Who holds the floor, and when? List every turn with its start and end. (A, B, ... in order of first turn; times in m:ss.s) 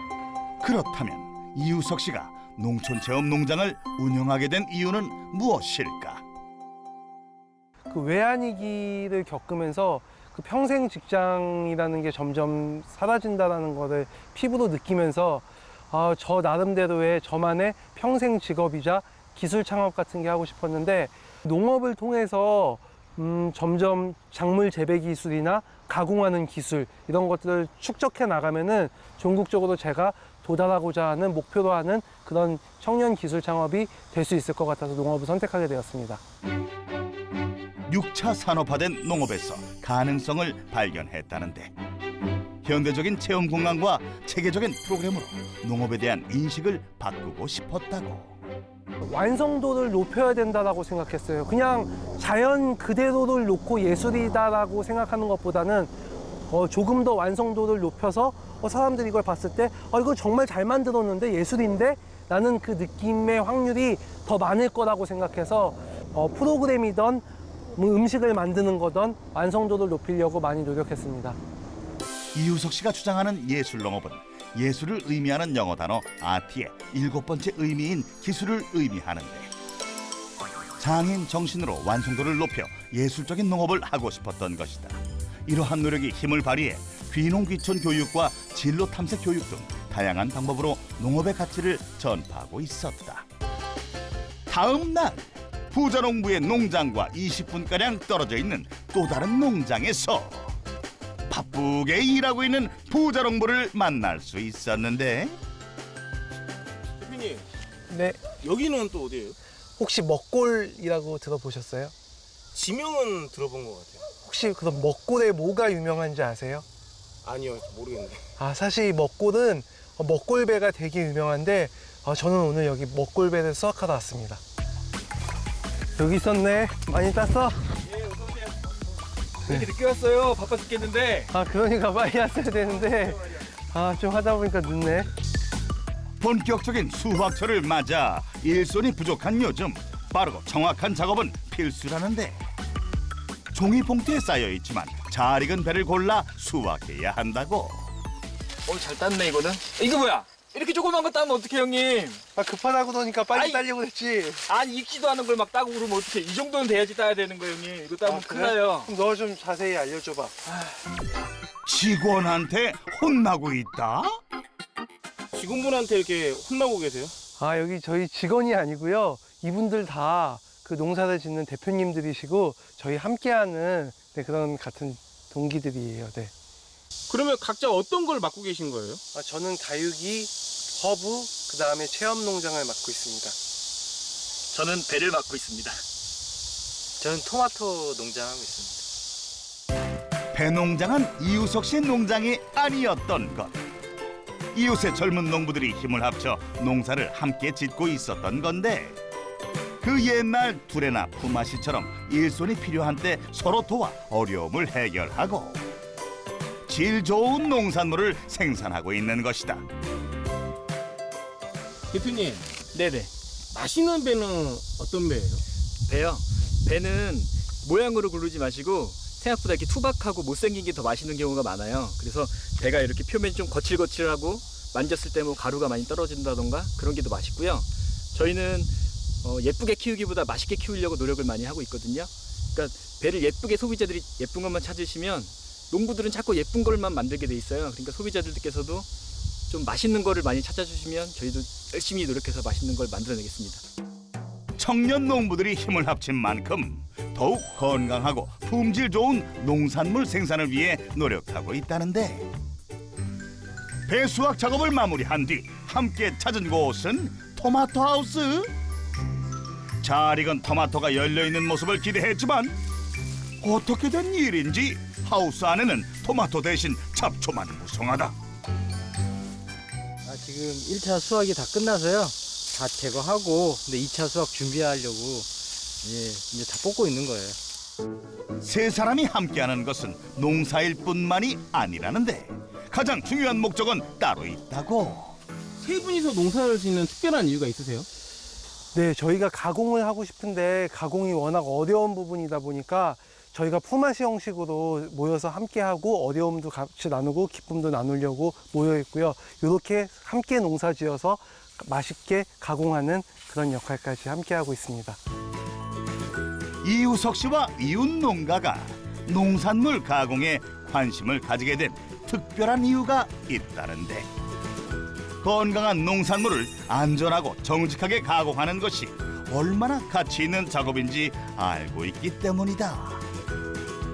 0:00.6-0:06.2 A
0:07.9-0:36.2 B
0:37.9-0:41.7 A
0:42.6-0:48.3 A
0:49.0-0:55.9 B
0:56.5-1:11.4 B
1:12.4-1:19.5 A
1:20.8-1:33.3 A
1:34.5-1:40.6 A
1:41.3-1:45.4 A
1:47.0-1:47.4 C
1:47.9-1:48.2 B
1:48.4-1:49.4 C
1:49.8-1:51.9 B
1:52.5-1:54.0 C
1:54.2-1:56.7 B
1:57.2-1:58.2 C
1:58.4-2:04.4 B
2:06.0-2:07.7 B
2:07.9-2:08.5 D
2:09.5-2:11.3 D
2:11.3-2:15.1 B
2:16.2-2:22.4 A
2:23.5-2:27.9 A
2:28.7-2:32.2 D
2:32.4-2:34.4 B
2:33.3-2:33.6 D
2:34.5-2:38.9 D
2:38.0-2:40.6 B
2:41.7-2:44.2 A
2:45.3-2:47.1 C
2:47.4-2:56.3 B
2:57.1-2:59.0 C
2:59.1-3:03.4 B
3:04.5-3:05.8 D
3:07.0-3:08.8 E
3:10.3-3:13.6 A
3:14.5-3:19.0 A
3:19.8-3:25.6 A
3:26.7-3:29.7 A
3:31.9-3:32.5 C
3:32.7-3:33.1 D
3:33.5-3:35.4 C
3:35.9-3:48.7 D
3:49.2-3:58.9 D
3:59.5-4:03.6 D
4:04.6-4:12.3 A
4:13.9-4:18.5 A
4:19.8-4:22.6 A
4:23.4-4:28.2 A
4:30.1-4:35.3 E
4:35.8-4:37.4 E
4:38.4-4:45.2 A
4:45.6-4:47.9 C
4:48.7-5:05.0 B
5:06.6-5:14.1 A
5:15.2-5:23.0 A